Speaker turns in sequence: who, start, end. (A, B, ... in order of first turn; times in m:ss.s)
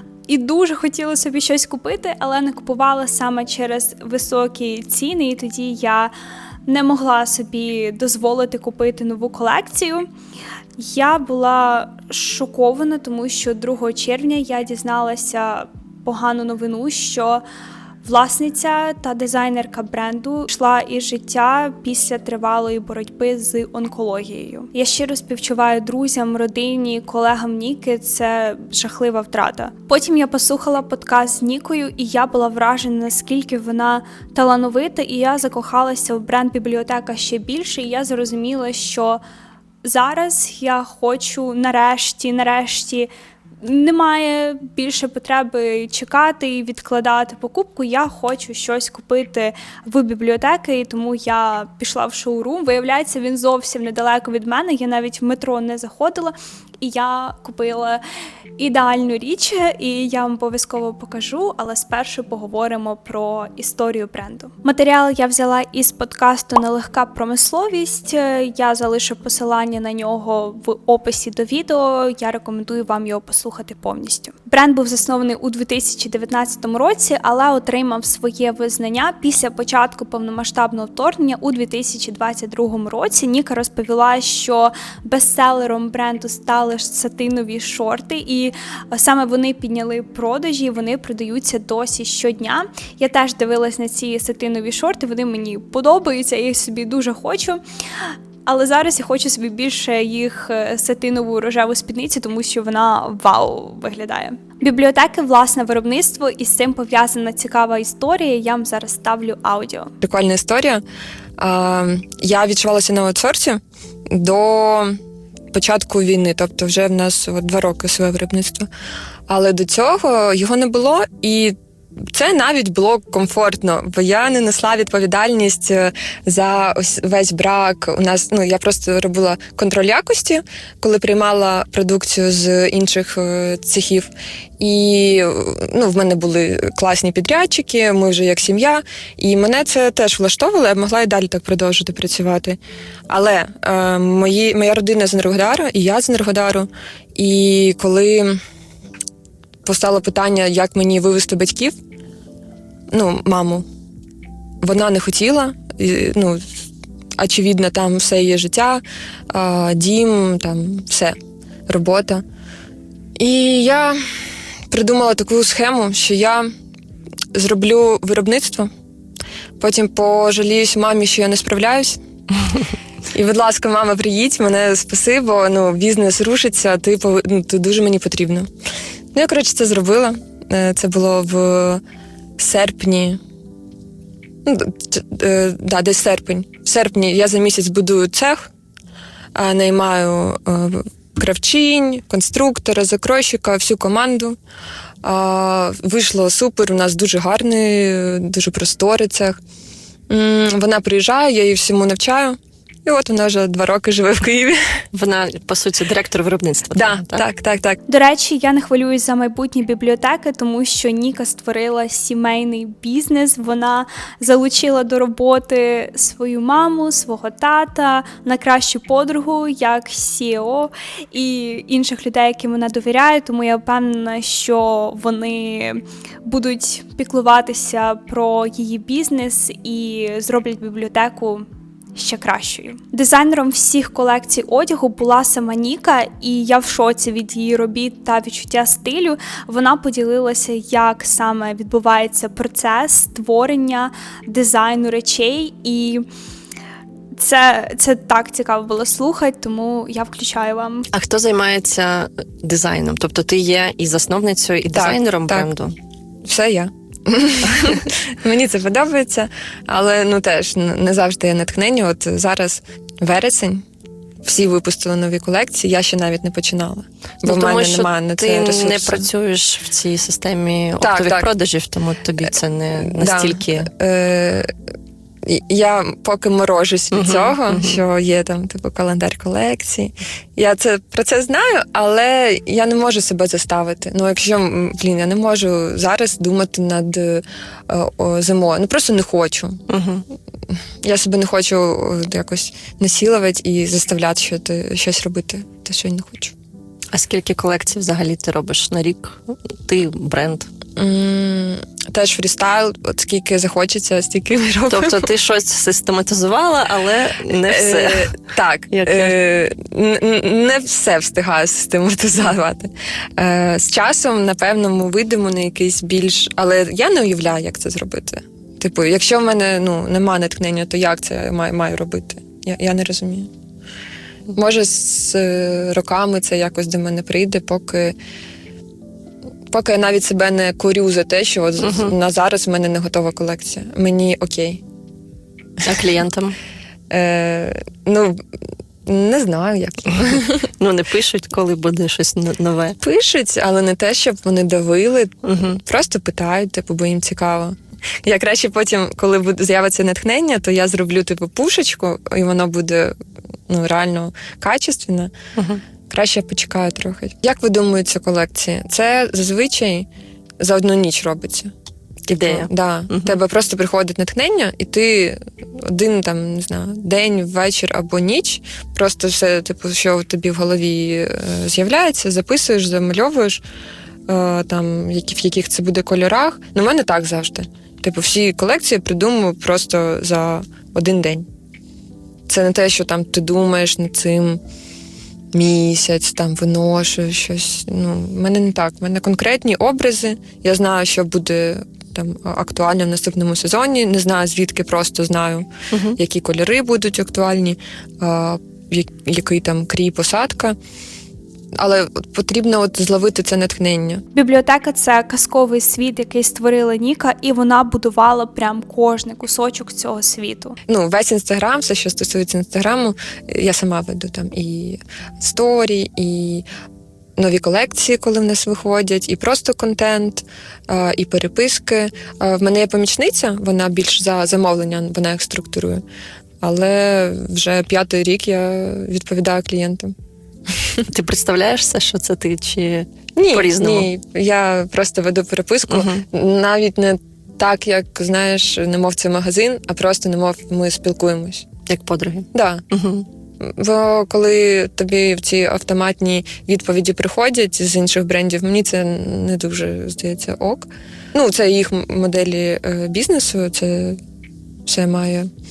0:00.3-0:06.1 A
0:06.7-0:10.1 A
0:10.8-0:17.4 A
0:18.0-0:39.2 A
0:39.8-0:43.1 A
0:43.6-0:58.0 A
0:58.6-1:37.6 A
1:38.4-1:49.9 A
1:50.0-1:50.8 B
1:51.4-1:55.0 B
1:55.5-1:58.7 B
1:59.3-2:01.5 B
2:02.1-2:28.4 B
2:29.6-2:31.8 B
2:32.9-2:33.6 B
2:34.6-2:36.6 B
2:37.2-2:41.2 B
2:41.7-2:42.2 B
2:43.2-2:44.0 B
2:44.7-2:46.5 B
2:47.3-2:48.7 B
2:49.6-2:52.0 B
2:53.1-2:58.5 B
2:59.1-3:01.8 B
3:02.4-3:03.2 B
3:04.4-3:08.5 B
3:09.3-3:14.4 B
3:15.0-3:19.4 B
3:20.1-3:24.8 B
3:24.9-3:27.2 C
3:26.7-3:27.8 B
3:27.9-4:06.0 A
4:07.1-4:10.9 A
4:10.9-4:15.7 C
4:14.7-4:15.5 B
4:16.2-4:23.6 B
4:24.2-4:29.1 B
4:27.2-4:33.7 C
4:30.8-4:31.3 B
4:32.9-4:34.5 B
4:35.2-4:49.6 B
4:36.9-4:37.8 C
4:49.7-4:50.0 C
4:50.8-4:56.3 B
4:56.9-5:00.5 C
5:00.8-5:05.0 B
5:04.7-5:08.1 C
5:07.4-5:23.3 B
5:08.7-5:09.1 C
5:24.4-5:28.0 B
5:29.5-5:34.6 B
5:31.6-5:31.9 C
5:35.6-5:36.4 C
5:36.9-5:38.2 B
5:38.8-5:40.5 B
5:40.6-5:42.8 C
5:42.8-5:52.9 B
5:45.2-5:45.6 C
5:53.5-5:55.1 B
5:55.4-5:55.6 C
5:55.9-5:59.9 B
6:00.4-6:01.5 B
6:02.1-6:13.4 B
6:02.1-6:03.2 C
6:14.1-6:21.2 B
6:22.3-6:24.4 B
6:25.3-6:40.6 B
6:35.7-6:36.0 C
6:41.5-6:44.0 B
6:44.1-6:50.6 A
6:50.7-6:56.4 B
6:57.2-7:05.8 B
7:06.4-7:09.9 B
7:10.5-7:10.8 B
7:10.9-7:13.9 C
7:13.1-7:21.5 B
7:15.7-7:16.0 C
7:21.7-7:23.0 C
7:22.3-7:22.6 B
7:23.4-7:34.0 B
7:34.6-7:35.3 B